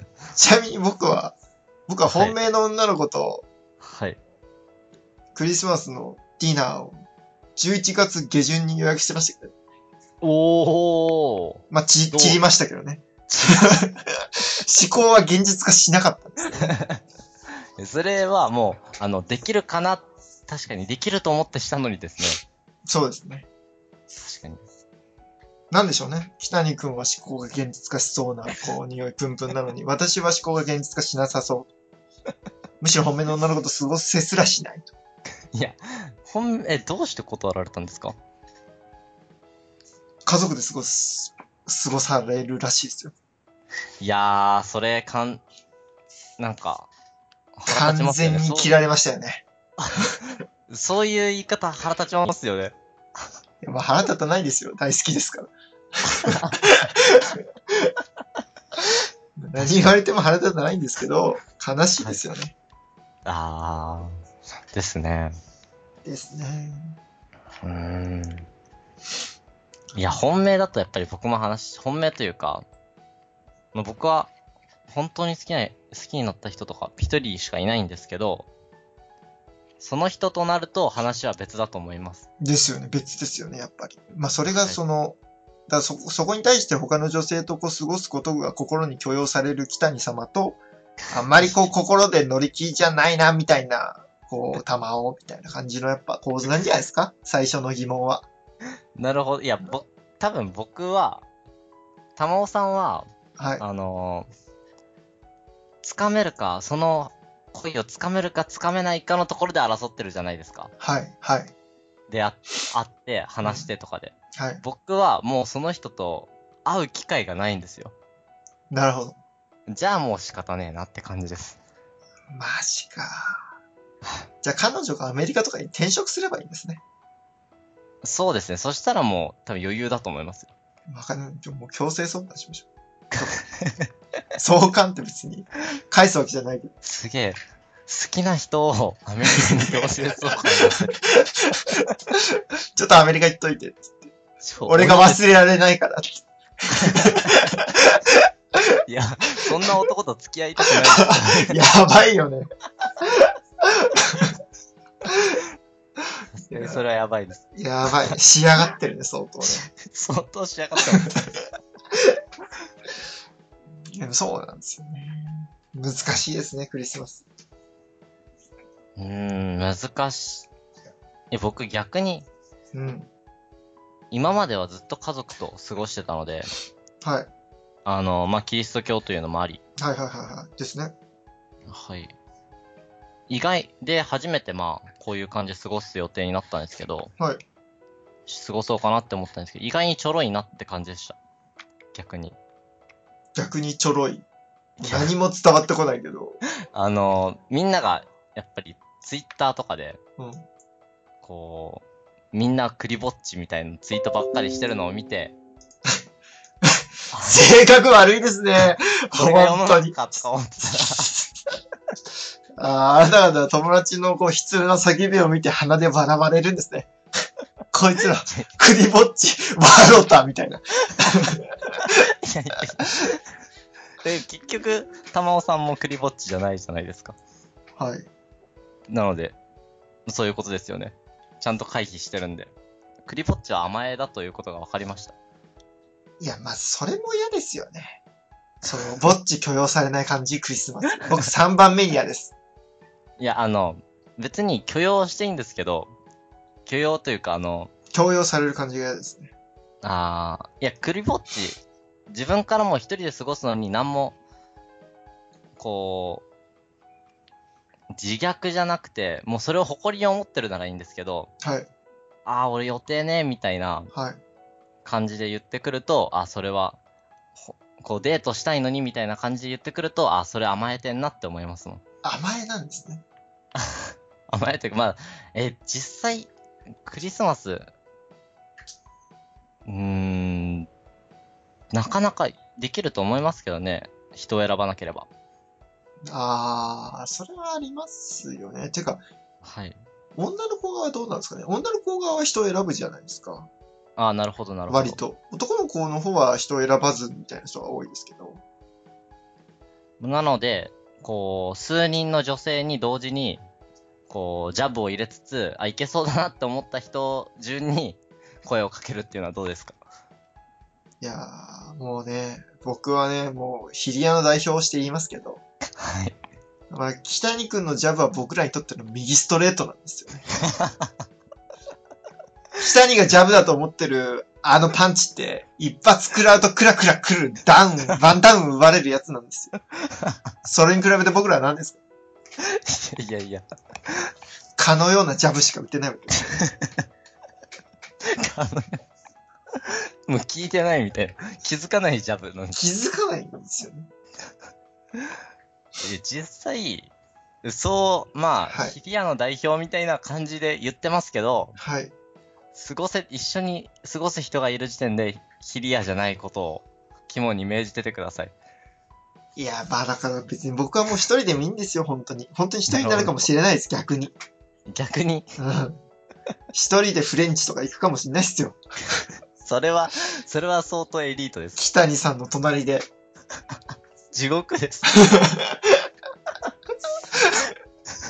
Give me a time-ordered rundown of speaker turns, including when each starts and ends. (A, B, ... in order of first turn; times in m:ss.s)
0:00.4-0:01.3 A
0:01.9-0:03.4 A
0:02.1-0:02.4 B
0:03.8-0:04.2 B
0:05.3-0:07.0 A
0:07.6-0:09.5 A
0:10.2-0:12.4 B
0:11.7-0:14.1 A
0:13.3-0:13.7 B
0:14.6-0:16.7 A
0:16.6-0:17.0 B
0:17.8-0:22.4 B
0:22.8-0:23.5 A
0:24.1-0:24.6 B
0:25.7-0:31.7 A
0:32.8-0:34.9 A
0:35.5-0:38.1 B
0:40.2-0:43.1 A
0:44.0-0:45.4 B
0:46.4-0:46.9 B
0:47.6-0:48.8 B
0:47.7-0:49.4 A
0:49.8-0:50.1 B
0:50.7-0:52.7 B
0:53.6-0:57.4 A
0:56.1-0:56.6 B
0:59.4-1:02.5 A
0:59.6-1:00.0 B
1:03.2-1:04.1 B
1:04.7-1:05.4 B
1:06.0-1:07.0 A
1:07.6-1:08.5 B
1:09.9-1:12.6 B
1:13.7-1:14.3 B
1:14.9-1:18.5 B
1:19.8-1:22.2 B
1:22.4-1:30.6 A
1:24.5-1:24.8 B
1:31.1-1:38.2 A
1:31.4-1:31.7 B
1:39.0-1:41.2 B
1:42.2-1:43.0 B
1:43.4-1:43.6 A
1:43.6-1:44.3 B
1:45.8-1:50.7 B
1:50.8-1:51.5 A
1:52.1-1:57.9 B
1:53.4-1:53.7 A
1:54.4-1:54.6 A
1:58.7-1:59.2 A
1:59.7-2:01.6 B
2:02.3-2:03.5 A
2:04.4-2:06.8 A
2:08.0-2:10.5 B
2:10.9-2:13.3 A
2:13.2-2:13.9 B
2:14.4-2:16.7 A
2:16.8-2:21.0 B
2:20.8-2:22.2 A
2:22.8-2:24.1 A
2:24.4-2:25.2 B
2:24.6-2:28.2 A
2:26.7-2:27.4 B
2:28.9-2:31.5 B
2:30.8-2:32.5 A
2:33.1-2:34.3 A
2:35.1-2:35.4 A
2:36.4-2:37.4 B
2:36.4-2:36.8 A
2:37.5-2:39.6 A
2:39.4-2:41.3 B
2:43.9-2:47.2 A
2:49.0-2:50.5 B
2:51.3-2:52.3 B
2:52.7-2:53.1 A
2:54.1-2:56.5 B
2:57.0-2:57.3 A
2:57.8-2:59.6 B
2:59.8-3:00.9 A
3:01.7-3:02.1 B
3:03.3-3:07.1 B
3:08.3-3:11.2 B
3:11.9-3:12.4 B
3:13.3-3:14.2 A
3:14.8-3:16.4 A
3:14.8-3:15.1 B
3:16.7-3:20.0 B
3:20.2-3:20.4 A
3:21.2-3:25.3 B
3:26.6-3:30.0 A
3:27.1-3:27.5 B
3:29.1-3:31.1 B
3:32.6-3:36.9 A
3:37.7-3:41.8 A
3:41.8-3:43.2 B
3:44.0-3:47.2 B
3:47.8-3:48.1 A
3:48.9-3:49.4 B
3:50.0-3:52.5 B
3:53.0-3:55.1 B
3:56.2-3:58.0 A
3:58.6-4:02.3 A
4:03.2-4:05.9 B
4:06.6-4:07.7 B
4:07.9-4:09.3 A
4:09.8-4:14.2 B
4:15.6-4:16.2 B
4:17.9-4:21.3 B
4:21.4-4:21.7 A
4:22.2-4:23.9 B
4:23.9-4:24.2 A
4:24.8-4:26.8 B
4:27.4-4:31.8 B
4:32.0-4:33.0 A
4:33.6-4:36.3 B
4:36.8-4:37.7 B
4:39.6-4:40.7 B
4:41.7-4:45.1 B
4:46.0-4:49.0 A
4:49.4-4:49.8 B
4:50.2-4:53.5 A
4:54.0-4:55.0 B
4:54.7-4:58.4 A
5:00.0-5:03.4 B
5:04.1-5:09.8 B
5:11.0-5:15.4 A
5:15.8-5:16.2 B
5:16.7-5:20.2 A
5:20.5-5:20.9 B
5:22.6-5:29.5 A
5:29.8-5:30.2 B
5:30.4-5:31.8 A
5:32.4-5:34.1 B
5:34.6-5:36.4 A
5:36.4-5:36.8 B
5:38.1-5:38.8 B
5:39.6-5:42.6 B
5:42.5-5:43.9 A
5:45.8-5:46.9 B
5:47.4-5:51.6 B
5:48.5-5:48.8 A
5:51.6-5:51.9 A
5:52.5-5:58.3 B
5:59.4-6:04.1 A
6:02.7-6:03.3 B
6:04.7-6:05.2 B
6:05.4-6:05.8 A
6:06.5-6:08.6 A
6:09.4-6:11.6 B
6:11.6-6:12.9 A
6:14.1-6:15.1 B
6:15.0-6:15.8 A